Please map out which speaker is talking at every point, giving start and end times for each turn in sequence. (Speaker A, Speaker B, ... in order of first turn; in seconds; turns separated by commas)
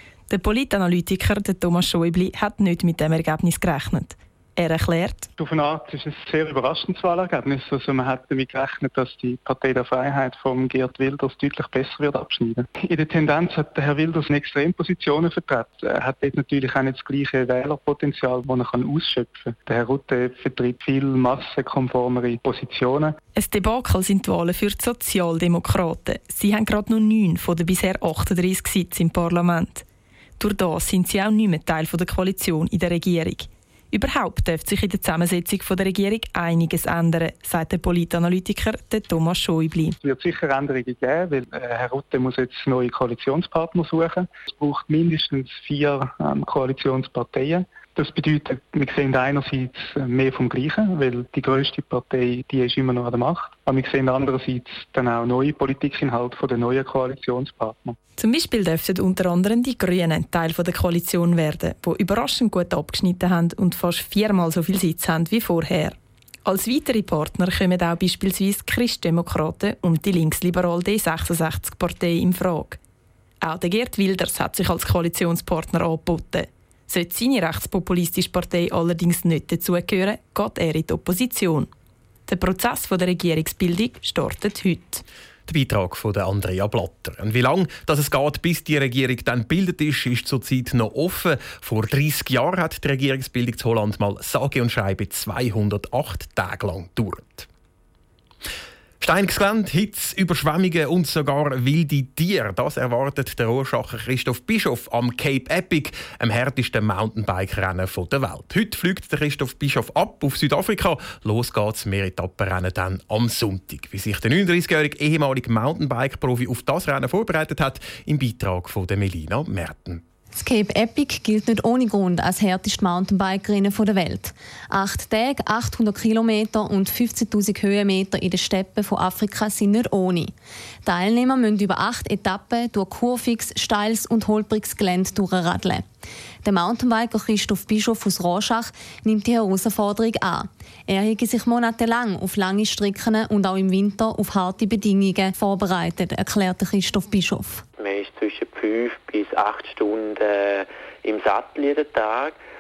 Speaker A: 0.3-5.3, Speaker B: 5.4-23.1, Speaker A: 23.4-29.8, Speaker A: 30.4-40.0, Speaker B: 40.0-58.0, Speaker A: 58.2-72.8, Speaker A: 73.4-81.7, Speaker A: 82.3-85.0, Speaker C: 85.5-97.5, Speaker C: 99.0-120.0, Speaker D: 120.3-130.3, Speaker D: 130.8-135.8, Speaker D: 136.4-147.6, Speaker E: 147.8-152.4